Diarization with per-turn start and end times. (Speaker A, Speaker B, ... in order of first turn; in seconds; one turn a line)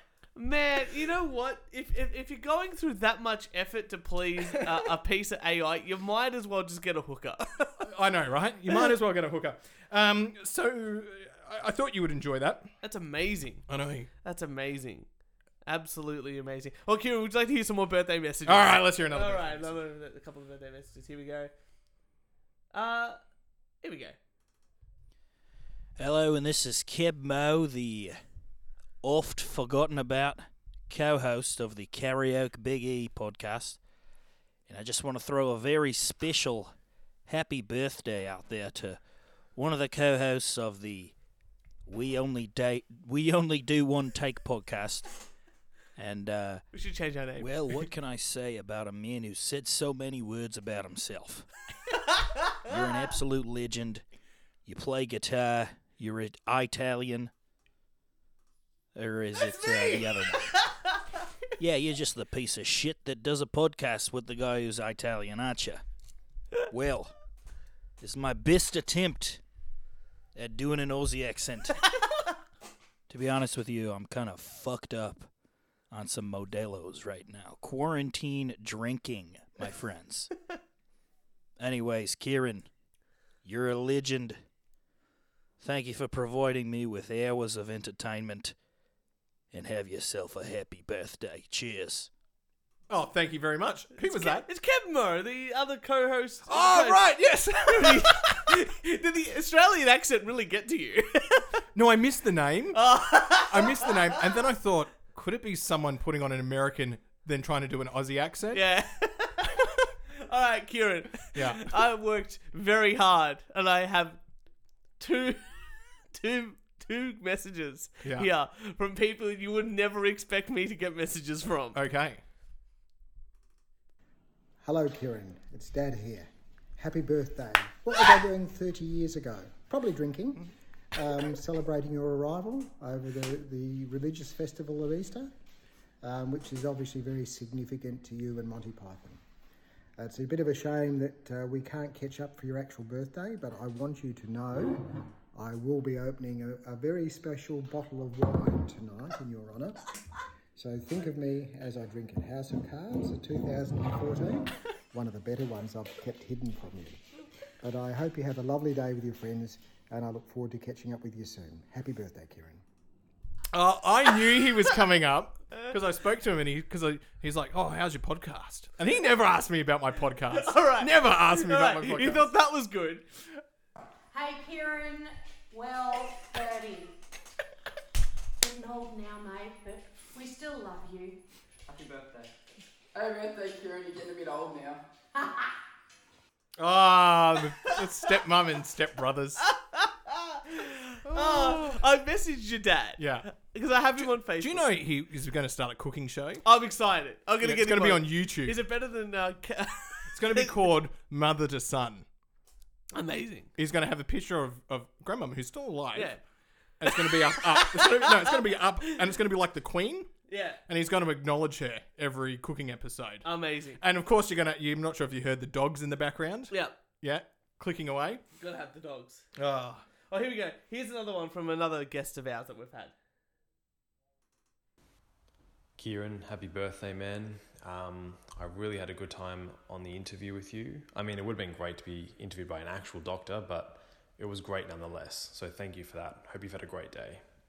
Speaker A: 0.3-7.8
Speaker B: 7.8-12.7
Speaker A: 12.8-13.7
Speaker B: 13.7-14.1
Speaker A: 14.2-15.1
Speaker A: 15.6-21.5
Speaker B: 18.4-19.8
Speaker A: 22.7-23.2
Speaker A: 23.8-24.2
Speaker C: 26.0-28.2
Speaker C: 29.0-33.8
Speaker C: 34.7-36.7
Speaker C: 37.3-39.0
Speaker C: 39.5-41.1
Speaker C: 41.9-45.1
Speaker C: 46.0-46.6
Speaker A: 46.7-47.8
Speaker C: 47.4-51.5
Speaker C: 52.6-54.0
Speaker C: 54.6-57.3
Speaker C: 58.9-60.6
Speaker A: 59.4-60.8
Speaker C: 61.6-65.8
Speaker C: 66.7-67.1
Speaker C: 68.0-69.4
Speaker C: 70.3-71.8
Speaker C: 73.1-75.3
Speaker C: 75.9-80.3
Speaker C: 81.6-82.7
Speaker C: 83.4-84.4
Speaker C: 85.6-88.5
Speaker C: 89.5-92.1
Speaker B: 92.9-94.5
Speaker A: 94.0-97.0
Speaker B: 96.5-98.4
Speaker A: 97.7-101.5
Speaker B: 101.7-102.8
Speaker A: 102.7-104.3
Speaker B: 103.3-108.6
Speaker A: 108.5-114.2
Speaker B: 111.3-111.8
Speaker A: 115.0-121.8
Speaker B: 118.0-118.3
Speaker B: 121.7-122.2
Speaker D: 124.6-135.3
Speaker D: 136.0-139.2
Speaker D: 140.0-149.9
Speaker D: 150.5-157.0
Speaker D: 157.6-162.6
Speaker B: 163.5-172.3
Speaker A: 170.3-173.0
Speaker E: 174.1-176.9
Speaker E: 178.4-181.2
Speaker F: 181.7-182.3
Speaker F: 182.9-184.8
Speaker E: 185.2-185.5
Speaker B: 186.6-189.4
Speaker A: 189.4-194.7
Speaker B: 191.1-191.8
Speaker B: 193.0-193.3
Speaker B: 194.0-196.4
Speaker A: 196.4-200.6
Speaker B: 197.4-198.6
Speaker B: 200.1-202.1
Speaker A: 202.9-203.5
Speaker B: 203.6-206.2
Speaker A: 205.9-206.2
Speaker B: 206.8-210.1
Speaker A: 206.8-209.0
Speaker A: 210.3-210.6
Speaker B: 210.7-213.2
Speaker A: 213.2-213.8
Speaker B: 213.8-218.2
Speaker A: 216.5-216.7
Speaker A: 218.4-219.2
Speaker B: 219.3-219.8
Speaker A: 220.1-222.9
Speaker G: 225.8-237.2